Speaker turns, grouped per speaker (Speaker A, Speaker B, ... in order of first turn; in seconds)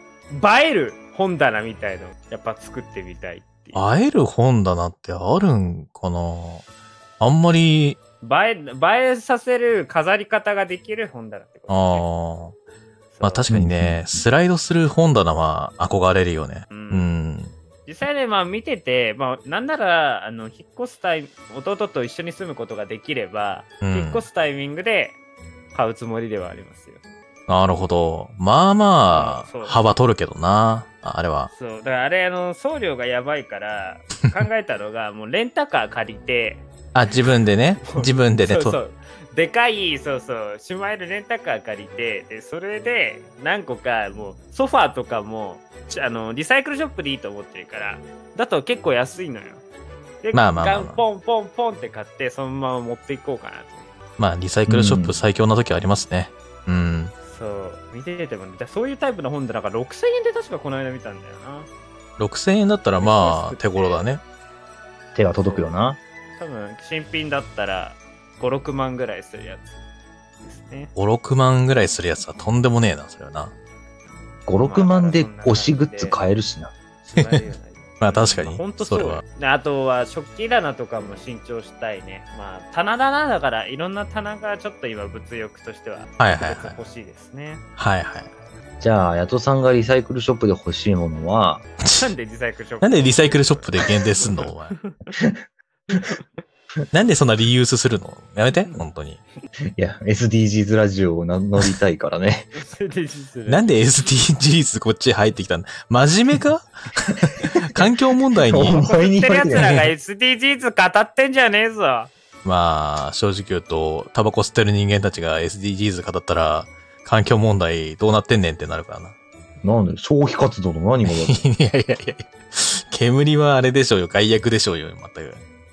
Speaker A: 0.3-3.8, 8.2-12.1, 13.1-13.4, 16.7-17.1, 17.9-25.2, 25.7-27.0, 29.1-29.8, 31.5-36.6, 37.9-49.6, 50.2-53.9, 57.2-61.7, 63.0-64.0, 65.4-65.7, 66.4-69.8, 70.4-70.9, 74.6-76.2, 77.0-87.6, 91.9-95.0, 102.5-103.7, 108.7-112.1
Speaker B: 3.7-6.6, 7.2-8.0, 11.7-12.5, 13.2-17.5, 23.8-24.2, 27.5-31.5, 36.9-38.8, 50.3-51.0, 54.2-57.1, 62.2-64.2, 71.0-73.5, 77.2-77.4, 78.0-79.2, 86.2-86.8, 87.8-88.3, 91.8-92.1, 92.8-94.8, 96.9-99.2, 103.5-108.8, 109.5-109.9, 112.4-119.1, 121.1-125.4
Speaker C: 13.5-14.0, 54.7-55.1, 65.2-66.0, 74.5-76.7, 88.8-91.6, 99.8-102.5, 108.5-109.8, 119.6-121.4